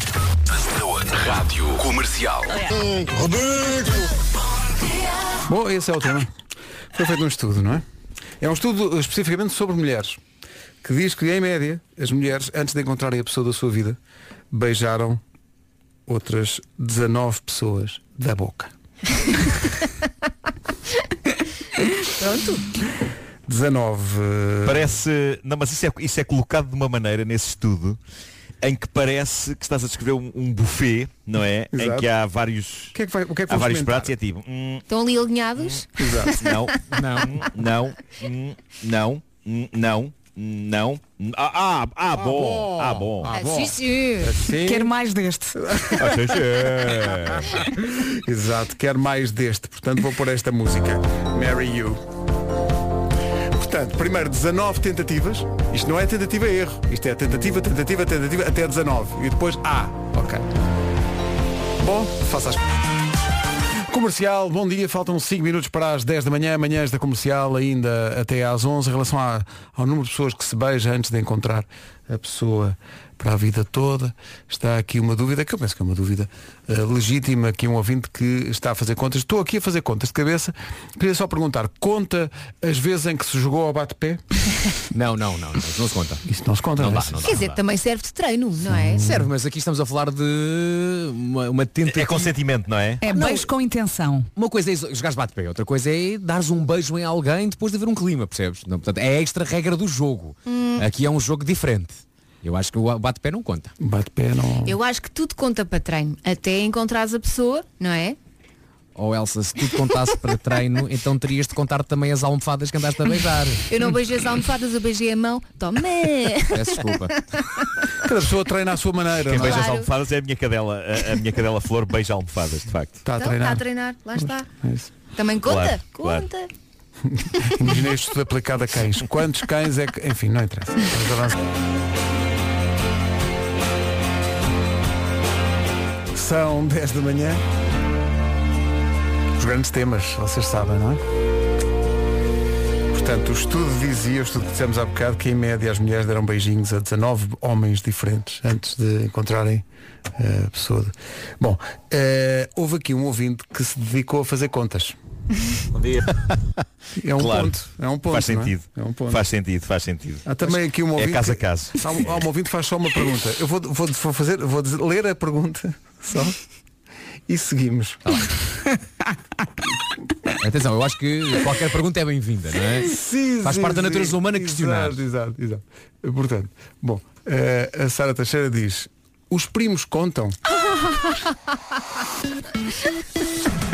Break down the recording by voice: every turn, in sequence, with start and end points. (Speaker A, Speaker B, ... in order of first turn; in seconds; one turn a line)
Speaker A: 0.5-2.6
Speaker B: 5.5-6.3
Speaker B: 6.9-7.8
Speaker B: 8.4-10.2
Speaker B: 10.8-14.0
Speaker B: 14.5-15.2
Speaker B: 16.1-18.7
Speaker C: 22.2-22.6
Speaker B: 23.5-25.0
Speaker D: 24.6-28.0
Speaker D: 28.6-33.0
Speaker B: 31.7-32.1
Speaker B: 32.9-34.1
Speaker D: 33.5-34.9
Speaker C: 34.9-36.7
Speaker B: 36.0-36.4
Speaker D: 36.4-43.3
Speaker E: 36.9-37.4
Speaker B: 42.2-44.9
Speaker C: 43.3-44.4
Speaker F: 44.5-45.6
Speaker B: 45.5-46.5
Speaker D: 46.0-47.5
Speaker B: 47.5-52.0
Speaker B: 53.5-60.5
Speaker B: 61.8-62.6
Speaker B: 63.9-84.2
Speaker E: 84.9-86.2
Speaker B: 86.3-87.2
Speaker E: 86.8-87.6
Speaker C: 87.2-89.0
Speaker B: 88.7-89.3
Speaker E: 88.9-92.4
Speaker D: 91.8-93.0
Speaker F: 93.0-94.3
Speaker E: 93.1-93.5
Speaker E: 94.4-103.7
Speaker C: 100.5-100.9
Speaker B: 103.8-104.8
Speaker C: 104.7-108.2
Speaker E: 109.0-113.7
Speaker C: 113.7-117.6
Speaker E: 116.5-117.2
Speaker B: 118.0-119.7
Speaker E: 119.3-119.7
Speaker D: 119.3-123.0
Speaker C: 119.4-119.9
Speaker B: 123.0-123.6
Speaker C: 123.2-124.5
Speaker B: 124.6-124.9
Speaker C: 125.2-126.5
Speaker D: 125.4-126.3
Speaker B: 127.1-131.3
Speaker B: 136.1-137.4
Speaker B: 139.4-141.0
Speaker B: 142.9-149.7
Speaker B: 150.2-155.0
Speaker D: 156.3-156.6
Speaker B: 157.0-159.2
Speaker D: 157.2-162.2
Speaker B: 160.3-166.4
Speaker B: 167.3-168.2
Speaker E: 170.4-175.0
Speaker B: 172.9-180.4